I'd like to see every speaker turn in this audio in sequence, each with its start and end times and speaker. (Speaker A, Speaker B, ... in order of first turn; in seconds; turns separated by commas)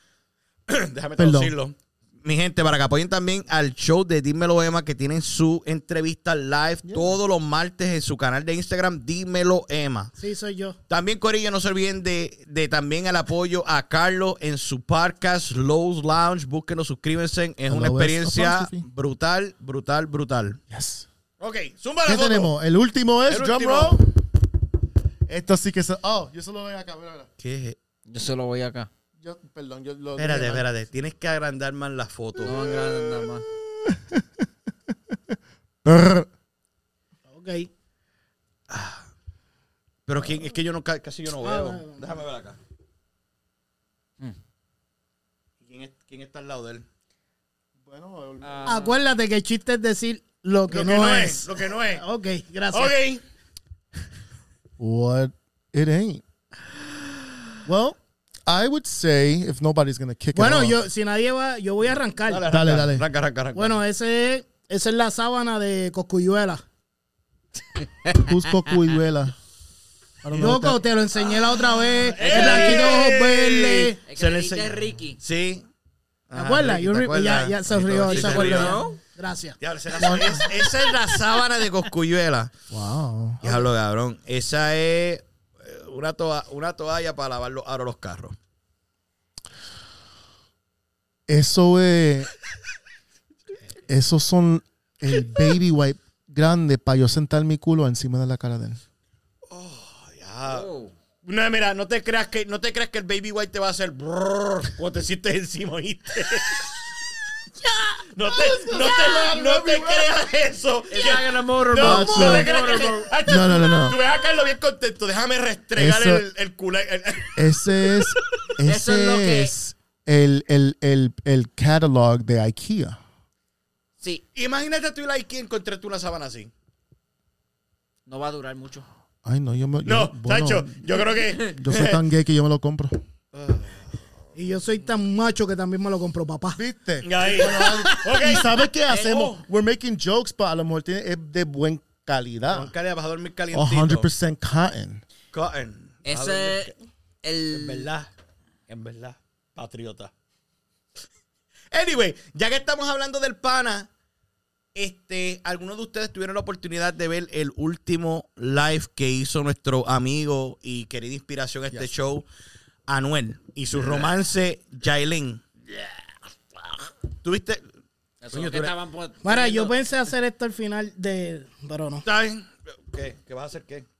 Speaker A: 0.7-10.1, Speaker B: 1.2-1.6, Speaker B: 6.8-7.2, Speaker C: 10.2-10.8, Speaker A: 10.9-20.6, Speaker B: 17.7-18.9, Speaker B: 20.7-21.1, Speaker A: 21.4-22.5, Speaker B: 22.0-24.1, Speaker A: 23.3-24.0, Speaker B: 25.3-27.3, Speaker A: 27.4-27.8, Speaker D: 28.1-28.9, Speaker B: 29.2-30.6, Speaker A: 30.2-32.9, Speaker D: 32.4-33.4, Speaker B: 33.8-36.3, Speaker C: 37.3-37.7, Speaker A: 38.7-39.1, Speaker A: 40.1-42.6, Speaker C: 41.4-42.1, Speaker A: 45.6-46.8, Speaker B: 47.8-48.7, Speaker D: 48.4-49.0, Speaker C: 48.6-53.0, Speaker A: 50.7-52.0, Speaker A: 52.7-53.2, Speaker B: 54.8-56.2, Speaker B: 57.6-60.8, Speaker C: 60.3-62.5, Speaker A: 62.2-63.8, Speaker B: 62.5-63.0, Speaker C: 63.5-66.6, Speaker D: 67.8-68.5, Speaker B: 68.1-69.3, Speaker B: 70.2-70.8, Speaker C: 70.3-74.0, Speaker A: 71.9-75.6, Speaker D: 72.3-72.8, Speaker D: 74.0-75.2, Speaker A: 76.3-78.9, Speaker C: 76.3-80.4, Speaker D: 78.0-79.0, Speaker A: 79.6-82.5, Speaker B: 80.0-80.5, Speaker B: 82.7-83.5, Speaker A: 83.4-88.3, Speaker B: 91.3-92.3, Speaker B: 93.8-98.8, Speaker A: 99.5-100.7, Speaker D: 100.5-100.9, Speaker A: 101.2-106.7, Speaker A: 108.1-118.4, Speaker B: 108.2-110.2, Speaker D: 110.9-113.1, Speaker B: 111.7-112.6, Speaker B: 113.2-114.0, Speaker B: 115.8-116.2, Speaker B: 117.3-123.0, Speaker D: 118.6-119.5, Speaker A: 124.3-126.5, Speaker D: 128.1-128.8, Speaker B: 129.2-131.0, Speaker A: 129.8-132.0, Speaker D: 131.2-131.6, Speaker B: 131.5-133.0, Speaker A: 133.3-134.0, Speaker C: 134.3-136.6, Speaker B: 136.5-142.7, Speaker A: 137.0-139.4, Speaker C: 137.4-137.8, Speaker A: 142.5-144.1, Speaker B: 143.5-145.0, Speaker A: 145.3-146.7, Speaker D: 146.0-147.9, Speaker A: 147.5-148.1, Speaker A: 148.7-150.1, Speaker A: 151.7-153.9, Speaker A: 154.7-162.2, Speaker A: 162.9-165.4, Speaker A: 167.2-167.6, Speaker D: 168.2-169.7, Speaker A: 168.3-168.7, Speaker C: 169.2-172.0, Speaker A: 172.0-173.8